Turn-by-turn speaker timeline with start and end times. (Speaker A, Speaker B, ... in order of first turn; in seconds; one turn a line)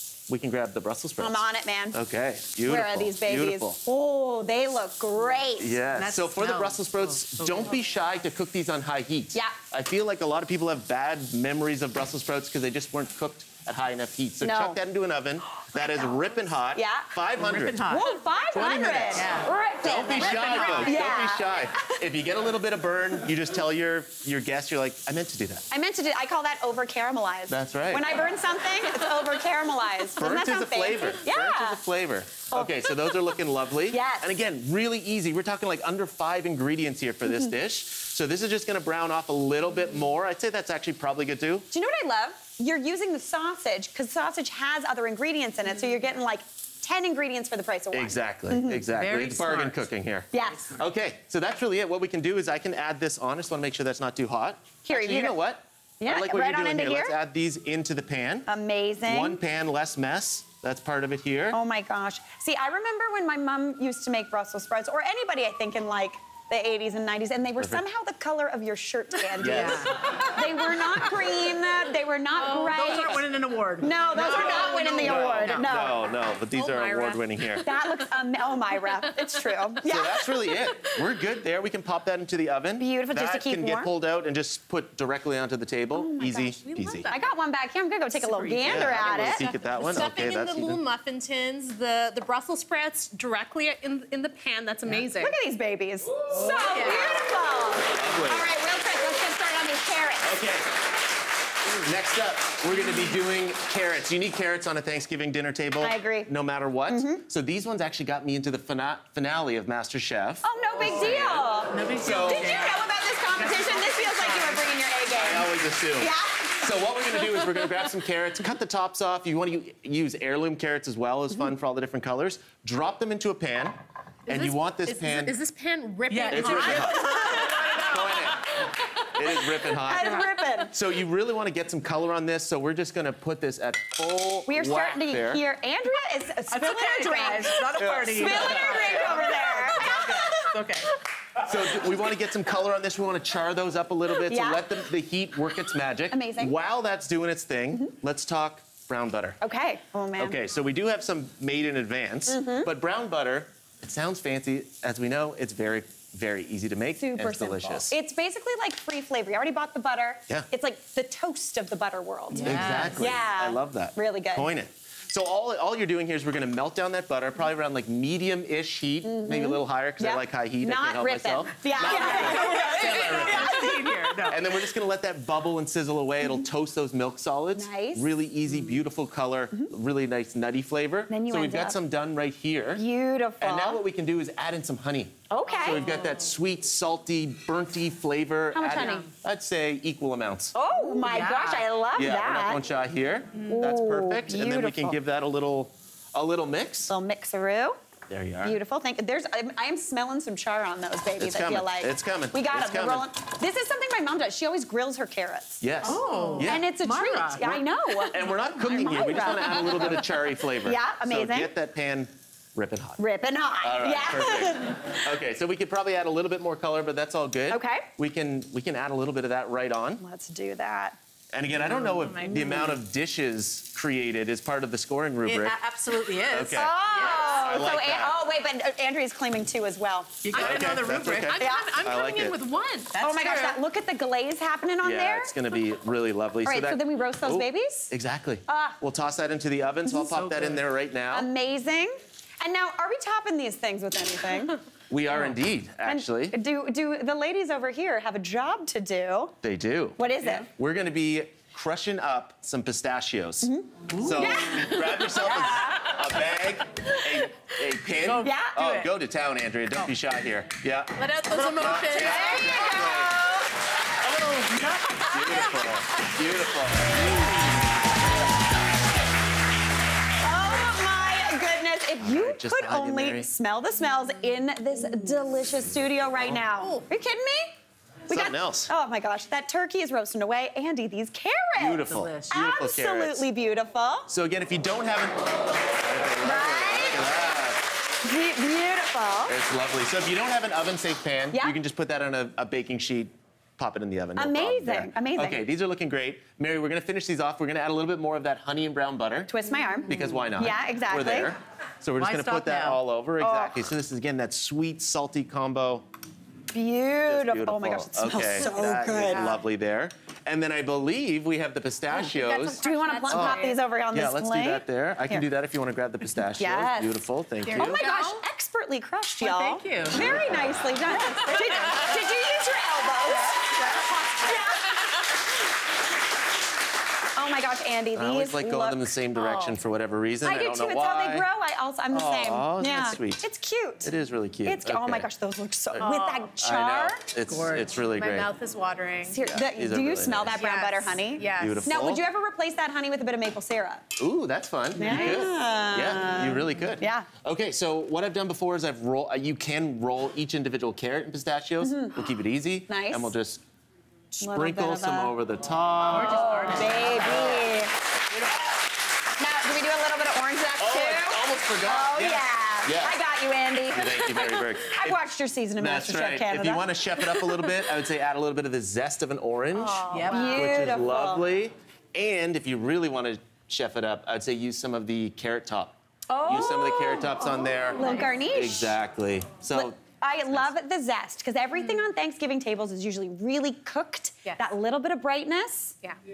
Speaker A: 0.3-1.4
Speaker B: 1.2-2.0
Speaker A: 1.9-3.8
Speaker B: 2.6-5.8
Speaker A: 5.6-18.0
Speaker C: 5.9-7.7
Speaker B: 14.4-14.8
Speaker B: 15.7-17.1
Speaker C: 17.4-18.1
Speaker B: 17.8-22.0
Speaker A: 18.5-19.3
Speaker C: 19.1-19.5
Speaker A: 19.8-25.6
Speaker C: 20.2-20.9
Speaker D: 20.5-21.0
Speaker B: 25.7-31.8
Speaker A: 27.5-28.1
Speaker A: 30.2-41.7
Speaker B: 32.5-33.3
Speaker B: 33.9-34.3
Speaker B: 41.7-48.8
Speaker A: 47.9-58.5
Speaker C: 48.9-49.8
Speaker B: 50.3-50.7
Speaker B: 54.8-55.4
Speaker B: 56.0-57.1
Speaker B: 58.5-59.4
Speaker A: 59.0-61.6
Speaker B: 61.5-73.3
Speaker A: 69.4-69.9
Speaker C: 69.5-69.9
Speaker D: 72.4-73.2
Speaker C: 72.5-75.7
Speaker B: 73.8-76.1
Speaker A: 74.1-77.7
Speaker D: 74.2-75.1
Speaker D: 76.5-77.8
Speaker B: 77.6-80.3
Speaker A: 79.8-87.1
Speaker B: 82.8-83.9
Speaker B: 85.9-86.6
Speaker D: 86.6-87.3
Speaker B: 87.1-89.4
Speaker C: 88.3-88.7
Speaker D: 88.6-95.4
Speaker A: 88.6-90.8
Speaker B: 95.2-100.3
Speaker D: 96.3-97.2
Speaker A: 98.0-98.5
Speaker A: 100.2-100.7
Speaker A: 101.6-112.7
Speaker B: 105.8-106.3
Speaker B: 106.9-107.2
Speaker B: 110.4-116.7
Speaker C: 111.7-112.8
Speaker C: 113.4-114.5
Speaker A: 115.1-125.4
Speaker D: 124.3-127.8
Speaker C: 126.1-128.4
Speaker A: 126.3-135.4
Speaker B: 127.1-127.4
Speaker B: 129.7-130.7
Speaker B: 134.4-140.5
Speaker C: 136.5-139.6
Speaker A: 137.7-140.4
Speaker C: 140.4-140.9
Speaker A: 141.4-149.4
Speaker B: 144.2-144.7
Speaker B: 146.1-146.6
Speaker B: 149.4-150.3
Speaker A: 150.2-157.9
Speaker B: 152.3-152.7
Speaker B: 157.0-164.5
Speaker D: 162.3-162.8
Speaker C: 162.4-163.0
Speaker A: 162.4-182.8
Speaker B: 169.0-174.2
Speaker C: 172.5-174.4
Speaker D: 172.5-172.9
Speaker B: 177.6-178.1
Speaker B: 181.1-181.8
Speaker B: 182.8-183.8
Speaker A: 183.4-190.5
Speaker B: 185.3-185.9
Speaker D: 185.5-185.8
Speaker B: 188.5-189.1
Speaker D: 188.7-189.1
Speaker B: 190.5-192.6
Speaker C: 191.0-191.6
Speaker A: 191.9-196.9
Speaker B: 193.5-195.0
Speaker B: 196.9-197.8
Speaker A: 198.1-198.6
Speaker B: 198.4-210.1
Speaker A: 201.2-203.1
Speaker A: 205.6-206.7
Speaker C: 205.9-207.5
Speaker D: 206.0-206.6
Speaker A: 207.4-213.0
Speaker B: 210.6-211.5
Speaker B: 213.0-215.0
Speaker A: 213.6-220.0
Speaker B: 217.5-217.9
Speaker B: 220.0-221.0
Speaker A: 221.3-225.6
Speaker D: 221.8-222.6
Speaker C: 221.9-222.4
Speaker C: 225.2-226.8
Speaker A: 226.2-228.1
Speaker B: 226.5-230.3
Speaker D: 226.8-227.6
Speaker C: 230.2-231.5
Speaker D: 230.3-233.0
Speaker A: 230.3-232.4
Speaker B: 231.4-231.8
Speaker C: 232.9-233.6
Speaker B: 233.0-235.4
Speaker A: 234.8-241.3
Speaker B: 236.4-237.9
Speaker B: 238.5-238.8
Speaker C: 240.2-240.5
Speaker B: 241.1-244.6
Speaker A: 244.9-246.3
Speaker B: 245.8-249.3
Speaker A: 249.4-263.2
Speaker B: 250.0-250.5
Speaker B: 253.4-255.6
Speaker C: 258.0-258.9
Speaker B: 258.2-258.6
Speaker D: 261.0-262.8
Speaker B: 261.9-263.4
Speaker C: 264.1-264.9
Speaker D: 265.0-265.8
Speaker A: 265.0-267.2
Speaker B: 270.2-277.5
Speaker A: 272.0-273.3
Speaker D: 276.6-276.8
Speaker B: 278.1-284.1
Speaker A: 278.1-278.7
Speaker A: 281.6-283.2
Speaker C: 281.9-282.3
Speaker A: 284.1-287.6
Speaker B: 286.2-287.1
Speaker B: 288.0-289.4
Speaker A: 289.3-299.3
Speaker B: 291.3-291.6
Speaker B: 294.2-295.4
Speaker B: 299.3-301.3
Speaker A: 299.9-305.9
Speaker C: 302.0-302.8
Speaker B: 303.2-303.6
Speaker B: 306.5-309.4
Speaker A: 307.0-317.8
Speaker D: 309.0-309.4
Speaker D: 311.9-313.6
Speaker B: 312.6-315.3
Speaker B: 316.4-317.0
Speaker D: 317.4-318.2
Speaker B: 317.5-323.6
Speaker C: 319.2-320.0
Speaker A: 319.9-320.6
Speaker C: 321.1-321.9
Speaker D: 321.2-322.0
Speaker D: 323.2-324.8
Speaker B: 324.2-324.8
Speaker B: 327.1-328.9
Speaker A: 327.9-331.2
Speaker D: 329.1-329.6
Speaker B: 330.2-333.9
Speaker A: 331.9-333.2
Speaker A: 333.8-335.1
Speaker B: 334.4-337.0
Speaker A: 335.7-338.3
Speaker C: 337.3-337.7
Speaker D: 337.7-339.2
Speaker B: 339.0-343.8
Speaker A: 339.2-340.4
Speaker D: 340.3-341.6
Speaker A: 341.4-342.0
Speaker A: 344.0-353.4
Speaker B: 344.8-347.1
Speaker B: 351.6-352.0
Speaker B: 352.7-353.1
Speaker B: 354.2-355.1
Speaker A: 354.2-357.6
Speaker C: 355.9-357.3
Speaker B: 356.0-357.7
Speaker B: 359.2-367.5
Speaker A: 360.6-363.0
Speaker A: 363.7-365.0
Speaker A: 365.6-379.7
Speaker D: 369.6-370.4
Speaker C: 369.9-370.3
Speaker B: 370.1-371.2
Speaker B: 376.1-378.8
Speaker D: 377.5-378.2
Speaker B: 379.5-385.8